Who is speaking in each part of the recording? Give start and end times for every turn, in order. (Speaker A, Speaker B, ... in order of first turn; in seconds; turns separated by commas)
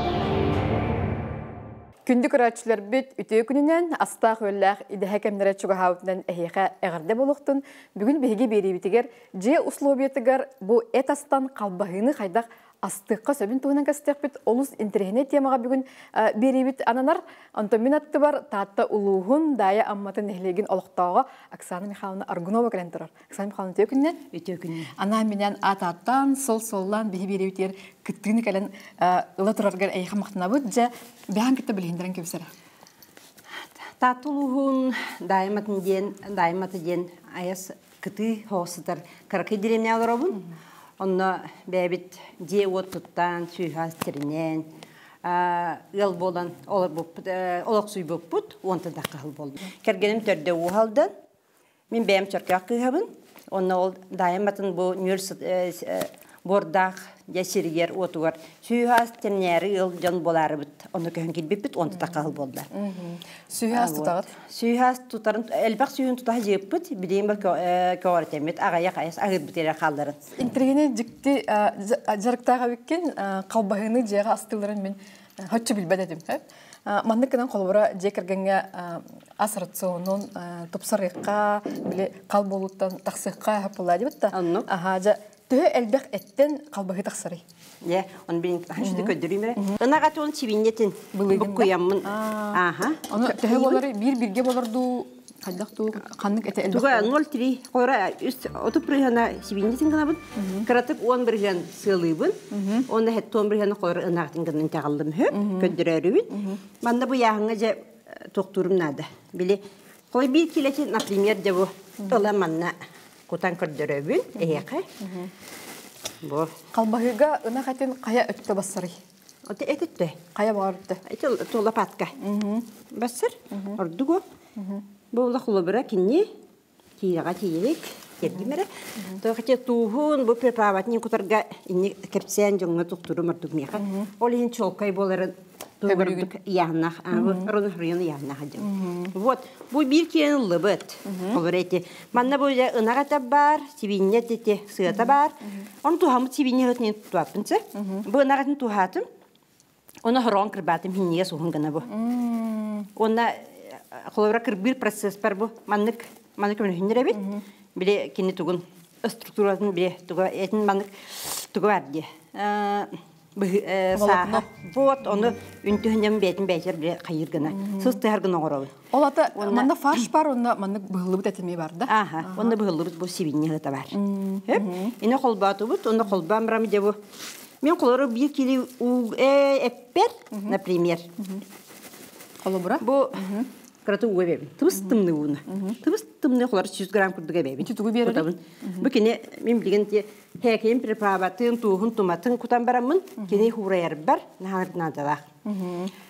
Speaker A: 2.1-24.2, Speaker B: 24.3-24.9, Speaker A: 25.0-32.5, Speaker B: 33.5-40.5, Speaker B: 41.0-44.7, Speaker B: 45.2-51.1, Speaker B: 51.9-62.7, Speaker A: 62.7-64.3, Speaker B: 63.7-70.2, Speaker A: 70.4-87.4, Speaker B: 84.3-84.7, Speaker B: 87.8-93.8, Speaker A: 88.8-89.8, Speaker A: 91.1-97.1, Speaker B: 96.6-109.6, Speaker A: 100.4-100.7, Speaker A: 102.5-102.9, Speaker A: 105.3-105.7, Speaker A: 106.3-106.6, Speaker B: 110.1-112.7, Speaker B: 113.3-114.9, Speaker A: 115.0-115.3, Speaker B: 116.2-116.5, Speaker A: 116.7-119.0, Speaker B: 119.5-120.2, Speaker A: 120.3-121.0, Speaker B: 121.0-122.2, Speaker A: 122.2-122.7, Speaker B: 122.9-124.2, Speaker A: 123.5-123.8, Speaker A: 124.6-124.8, Speaker B: 125.1-126.3, Speaker B: 127.0-149.1, Speaker A: 133.8-134.1, Speaker A: 135.9-136.3, Speaker A: 137.1-137.5, Speaker A: 138.6-139.2, Speaker A: 141.1-141.4, Speaker A: 147.8-148.1, Speaker B: 150.0-151.9, Speaker A: 151.9-152.9, Speaker B: 153.0-168.8, Speaker A: 157.2-157.4, Speaker A: 164.0-164.5, Speaker A: 167.6-167.9, Speaker A: 168.9-172.6, Speaker B: 169.3-170.0, Speaker B: 171.9-177.0, Speaker A: 173.9-174.9, Speaker B: 177.6-181.1, Speaker A: 182.4-183.5, Speaker B: 182.8-183.3, Speaker B: 183.8-195.3, Speaker A: 185.5-185.8, Speaker A: 187.6-188.9, Speaker A: 195.4-195.9